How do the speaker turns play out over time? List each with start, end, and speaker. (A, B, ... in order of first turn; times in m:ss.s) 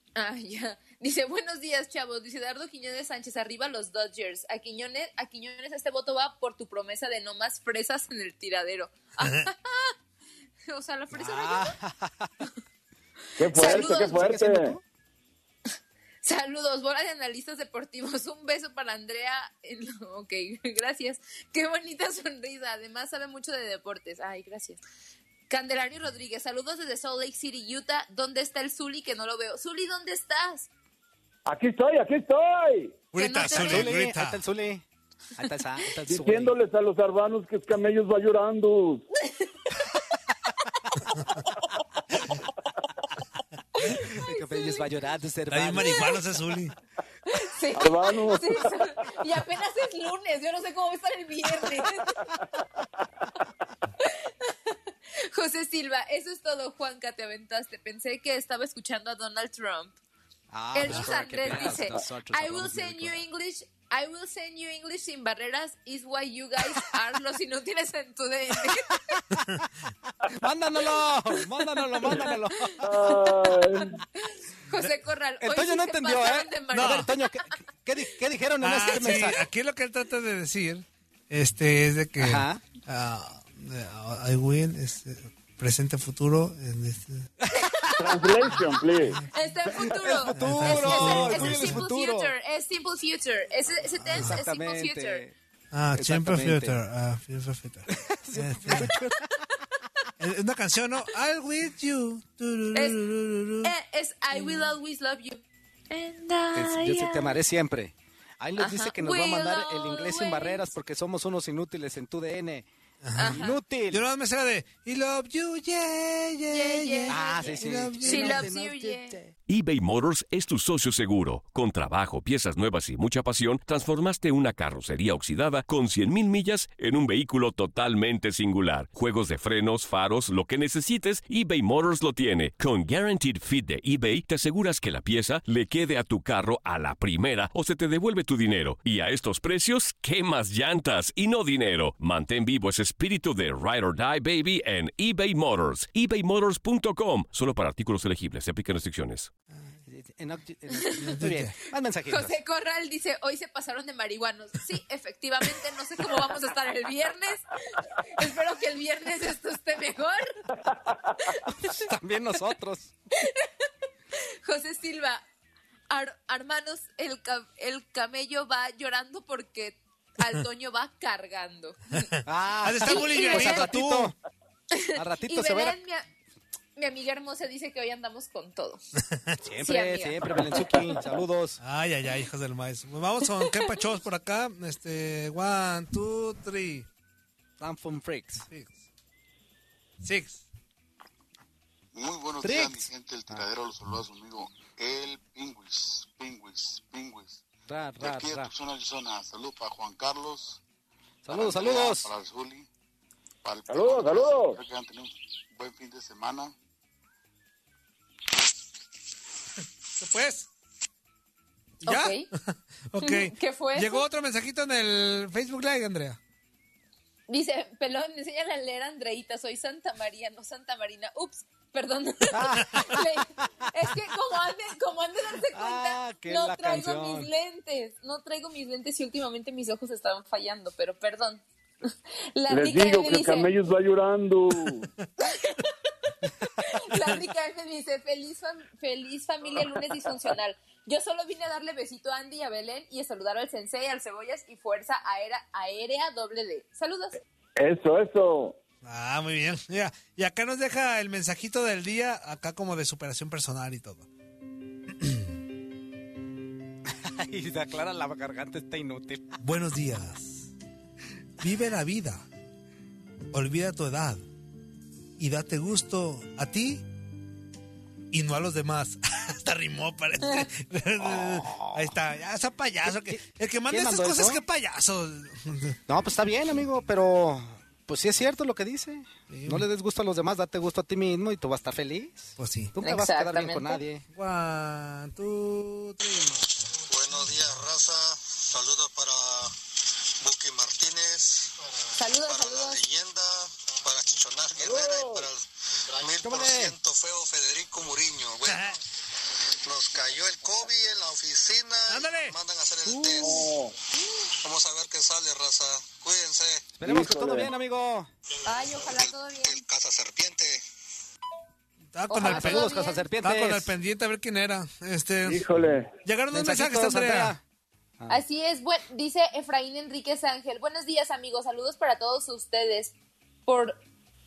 0:00.2-0:09.9 A
0:09.2-0:09.4 B
0:10.7-0:11.8 A
0:11.1-0:12.3 C
0:13.4-0:14.8 D
0:13.4-0:14.2 A
0:13.5-0:14.8 C
0:16.2-0:24.8 A
0:25.5-0:30.7 A
0:31.4-0:33.0 D
0:33.1-0:34.4 B
0:33.1-0:33.9 A
0:33.4-0:36.5 C
0:36.1-0:39.0 D
0:43.8-0:44.9 A
0:44.0-0:46.1 C
0:45.5-0:46.7 B
0:47.3-0:52.2 A
0:47.8-0:48.8 D
0:54.0-1:00.0 A
1:00.5-1:03.2 C
1:00.7-1:09.2 A
1:08.6-1:09.4 C
1:10.2-1:13.1 C
1:12.8-1:13.9 D
1:14.2-1:17.3 A
1:15.4-1:19.4 C
1:16.7-1:17.1 B
1:18.6-1:27.3 B
1:22.2-1:22.6 C
1:27.4-1:28.5 C
1:28.0-1:29.2 D
1:29.3-1:35.2 A
1:29.7-1:32.3 C
1:30.3-1:31.8 B
1:34.0-1:35.3 C
1:35.7-1:38.9 B
1:35.9-1:36.8 C
1:37.9-1:39.5 C
1:40.2-1:43.7 B
1:42.7-1:43.0 A
1:43.6-1:47.4 A
1:44.3-1:44.7 C
1:46.5-1:52.7 C
1:48.6-1:50.6 A
1:53.0-1:58.5 B
1:53.2-1:53.6 A
1:53.2-1:54.0 C
1:56.5-1:59.2 A
1:57.1-1:59.3 C
1:59.5-2:29.3 E
2:29.8-2:32.4 C
2:30.9-2:31.2 A
2:31.2-2:31.5 B
2:32.1-2:37.4 A
2:38.1-2:40.4 A
2:41.3-2:41.8 A
2:41.6-2:42.9 C
2:43.2-2:45.2 A
2:45.9-2:52.1 A
2:52.2-2:54.1 C
2:52.6-2:54.1 B
2:52.8-2:53.7 A
2:54.7-2:56.1 A
2:54.9-2:55.8 C
2:56.8-2:58.8 A
2:59.4-3:01.6 C
2:59.6-3:01.0 A
3:01.6-3:06.9 B
3:07.6-3:08.5 C
3:10.0-3:10.4 B
3:11.9-3:17.4 F
3:12.4-3:12.8 C
3:17.7-3:18.5 C
3:18.0-3:20.6 F
3:21.2-3:22.1 C
3:21.3-3:22.7 F
3:23.4-3:26.5 F
3:23.7-3:24.6 D
3:30.0-3:30.5 B
3:31.8-3:32.3 A
3:31.8-3:32.4 B
3:32.9-3:36.2 B
3:33.0-3:34.0 A
3:37.3-3:53.5 A
3:42.3-3:43.1 C
3:45.5-3:47.3 C
3:52.5-3:54.9 D
3:55.2-3:55.7 A
3:56.4-4:07.2 A
4:07.6-4:08.6 D
4:08.8-4:14.1 B
4:15.0-4:15.2 B
4:16.9-4:19.4 C
4:19.4-4:20.5 B
4:21.4-4:22.2 B
4:23.3-4:24.2 B
4:25.2-4:26.8 B
4:28.1-4:35.8 B
4:31.0-4:32.0 C
4:32.8-4:34.4 C
4:35.9-4:44.0 C
4:39.3-4:39.6 B
4:42.4-4:42.7 B
4:42.8-4:43.8 A
4:44.1-4:46.4 B
4:46.9-4:49.4 G
4:46.9-4:49.5 F
4:50.2-4:51.2 G
4:50.3-4:55.3 F
4:52.0-4:52.8 A
4:52.4-4:53.3 G
4:53.8-4:54.5 G
4:54.6-4:55.3 D
4:55.9-4:58.7 F
4:56.0-4:58.4 G
4:56.2-4:56.7 C
4:58.4-4:58.8 B
4:59.7-5:03.1 G
4:59.7-5:01.0 F
5:01.9-5:02.4 B
5:01.9-5:03.4 F
5:02.9-5:03.4 C
5:03.2-5:03.7 D
5:04.4-5:06.7 F
5:04.5-5:06.5 G
5:06.8-5:08.1 C
5:06.8-5:07.5 D
5:08.4-5:09.6 A
5:08.6-5:10.4 F
5:09.7-5:10.6 G
5:11.9-5:15.4 B
5:12.1-5:13.0 A
5:12.2-5:13.7 C
5:15.2-5:15.9 D
5:16.0-5:17.3 B
5:16.3-5:17.4 C
5:18.1-5:22.9 A
5:23.5-5:23.8 A